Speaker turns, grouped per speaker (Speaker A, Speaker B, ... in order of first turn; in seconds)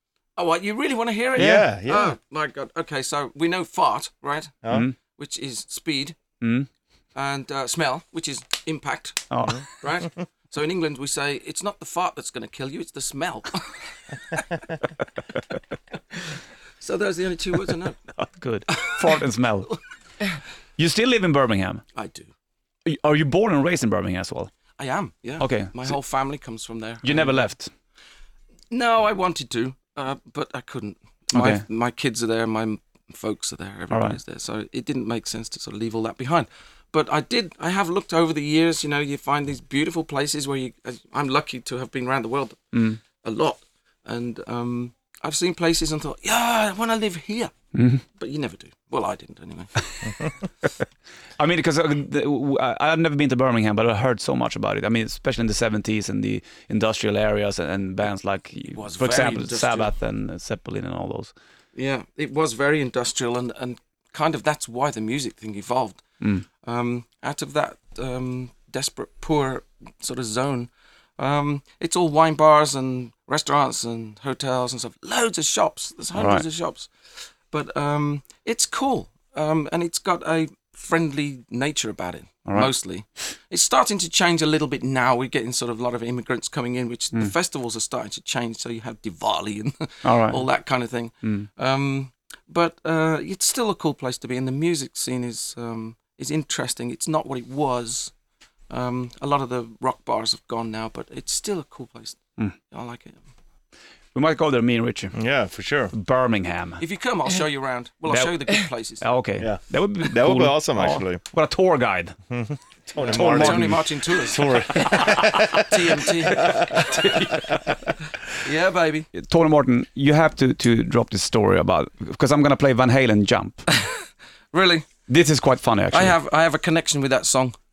Speaker A: 0.3-6.2, 7.1-14.6, 16.8-18.0, 21.9-22.3, 24.8-27.5, 28.7-42.6, 43.1-47.5, 48.1-49.9, 58.7-59.9, 61.7-66.0, 66.6-76.9, 77.5-98.1, 98.7-103.2, 106.8-109.1, 113.0-117.3, 118.4-119.1, 124.5-124.9, 125.9-127.5
Speaker B: 1.4-2.1, 105.1-105.9, 109.4-111.2, 112.3-115.8, 116.4-116.6
Speaker C: 4.7-5.0, 6.4-6.7, 9.3-9.7, 18.1-19.7, 20.8-21.8, 22.9-24.5, 25.4-26.0, 27.0-27.7, 31.3-31.6, 33.9-34.2, 42.7-43.0, 47.7-48.0, 51.4-61.3, 76.1-76.4, 90.0-90.4, 104.1-105.2, 105.9-106.8, 108.1-108.4, 109.0-112.2, 113.0-113.8, 114.8-115.5, 116.5-117.6, 119.1-123.7, 125.1-126.1